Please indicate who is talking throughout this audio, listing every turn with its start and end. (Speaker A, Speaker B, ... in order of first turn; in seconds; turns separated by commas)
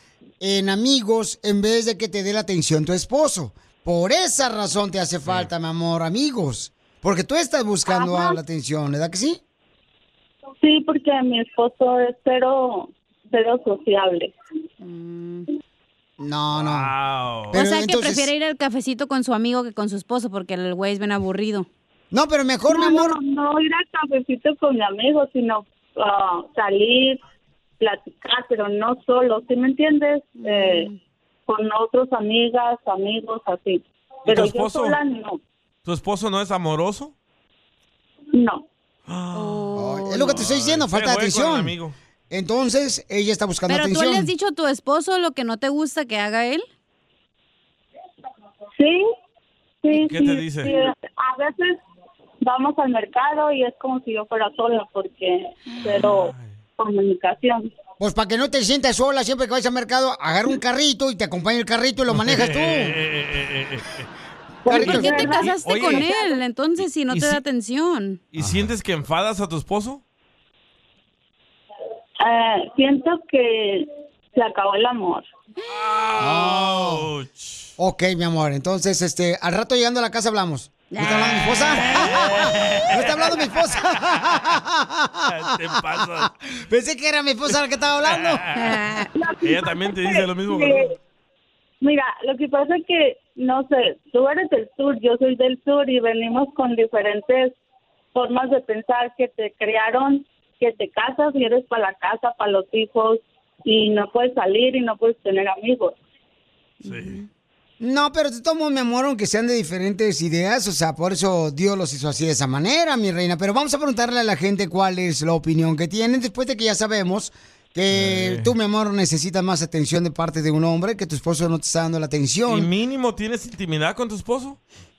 Speaker A: 0.4-9.4, Speaker B: 7.8-8.4, Speaker B: 10.6-14.3, Speaker C: 14.8-15.5, Speaker A: 16.2-16.9, Speaker D: 16.5-17.6, Speaker A: 17.5-18.3, Speaker C: 17.5-21.7, Speaker A: 22.1-23.2, Speaker B: 22.7-27.2, Speaker B: 27.8-30.9, Speaker C: 30.4-31.0, Speaker B: 31.5-35.4, Speaker D: 34.2-35.0, Speaker D: 35.8-37.1, Speaker B: 38.3-38.6, Speaker D: 39.1-41.9, Speaker C: 39.3-40.4, Speaker A: 39.8-41.8, Speaker A: 42.3-44.3, Speaker C: 43.7-46.7, Speaker B: 48.8-49.0, Speaker B: 49.8-51.8, Speaker D: 49.9-50.7, Speaker B: 52.4-57.7, Speaker D: 55.9-56.6, Speaker A: 58.0-63.0, Speaker D: 62.1-64.1, Speaker B: 64.7-66.0, Speaker A: 64.7-65.1, Speaker C: 64.7-68.2, Speaker D: 64.8-66.1, Speaker D: 67.1-67.4, Speaker D: 68.3-70.0, Speaker A: 68.4-68.7, Speaker B: 72.2-75.3, Speaker D: 75.7-77.7, Speaker A: 76.2-77.1, Speaker A: 77.8-88.4, Speaker C: 80.9-82.3, Speaker D: 81.0-83.5, Speaker D: 85.3-86.3, Speaker D: 88.0-88.8, Speaker C: 88.5-89.1, Speaker B: 89.2-90.9, Speaker D: 89.4-90.9, Speaker B: 91.8-97.5, Speaker B: 98.1-106.0, Speaker C: 106.8-107.2, Speaker D: 106.8-107.2, Speaker A: 107.8-122.7, Speaker D: 117.9-118.5, Speaker D: 122.5-124.6